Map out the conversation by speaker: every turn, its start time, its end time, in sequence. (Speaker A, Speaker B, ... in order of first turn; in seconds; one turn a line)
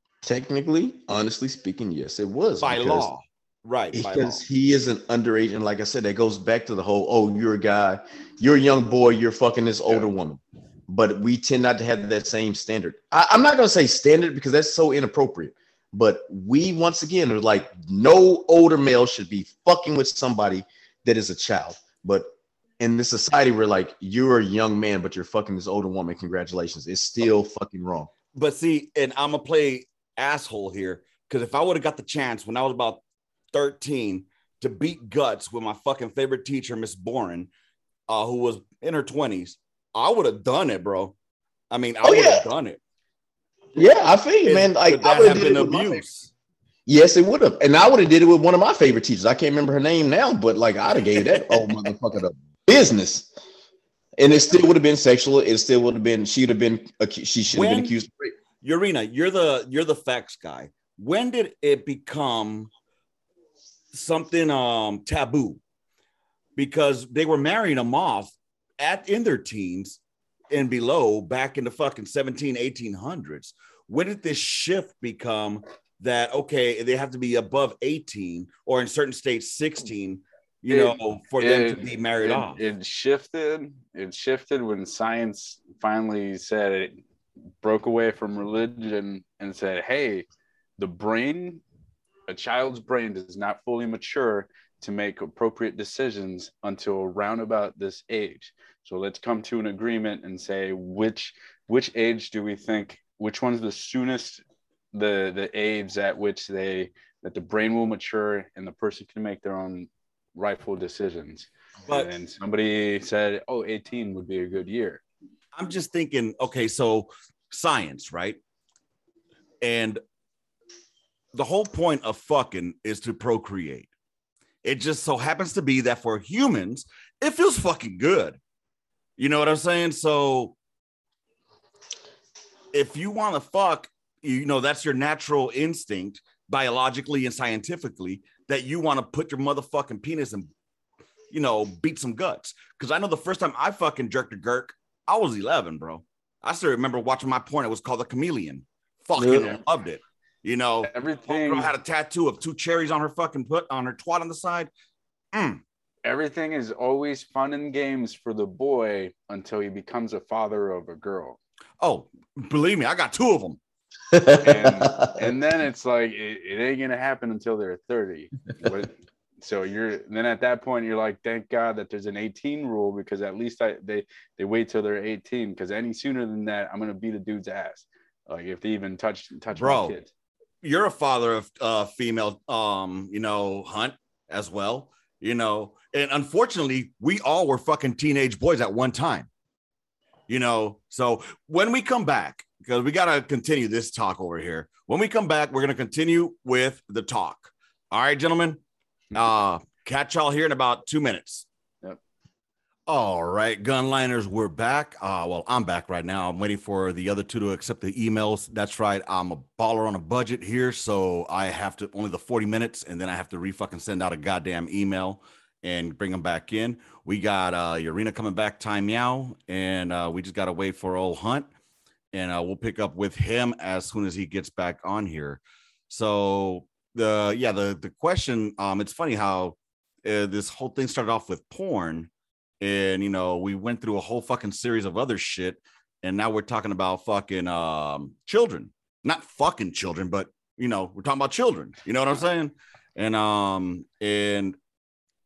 Speaker A: 0.2-3.1
Speaker B: 2.6-4.4
Speaker A: 3.9-22.3
Speaker A: 22.8-28.1
Speaker B: 28.3-33.0
Speaker B: 33.5-37.5
Speaker B: 38.1-41.1
Speaker B: 41.7-42.8
Speaker A: 42.0-42.5
Speaker A: 43.8-46.0
Speaker B: 44.4-46.3
Speaker A: 46.9-53.3
Speaker B: 51.3-51.6
Speaker A: 54.2-58.3
Speaker B: 57.5-58.0
Speaker B: 58.6-62.7
Speaker B: 63.9-65.6
Speaker B: 66.6-70.0
Speaker B: 70.5-82.6
Speaker C: 80.7-87.0
Speaker C: 87.6-90.3
Speaker C: 90.8-91.6
Speaker C: 92.3-115.0
Speaker B: 115.5-118.4
Speaker B: 119.6-120.0
Speaker B: 121.3-123.9
Speaker B: 124.6-128.4
Speaker B: 129.2-130.6
Speaker B: 132.7-140.5
Speaker B: 141.3-154.7
Speaker A: 149.2-149.5
Speaker C: 150.8-151.7
Speaker B: 155.3-155.6
Speaker C: 156.1-161.4
Speaker B: 161.8-163.6
Speaker A: 164.1-165.2
Speaker C: 164.4-180.1
Speaker B: 179.6-180.0
Speaker B: 180.6-189.3
Speaker B: 190.3-198.6
Speaker B: 199.1-201.5
Speaker B: 202.9-221.5
Speaker B: 222.1-232.1
Speaker B: 232.6-244.6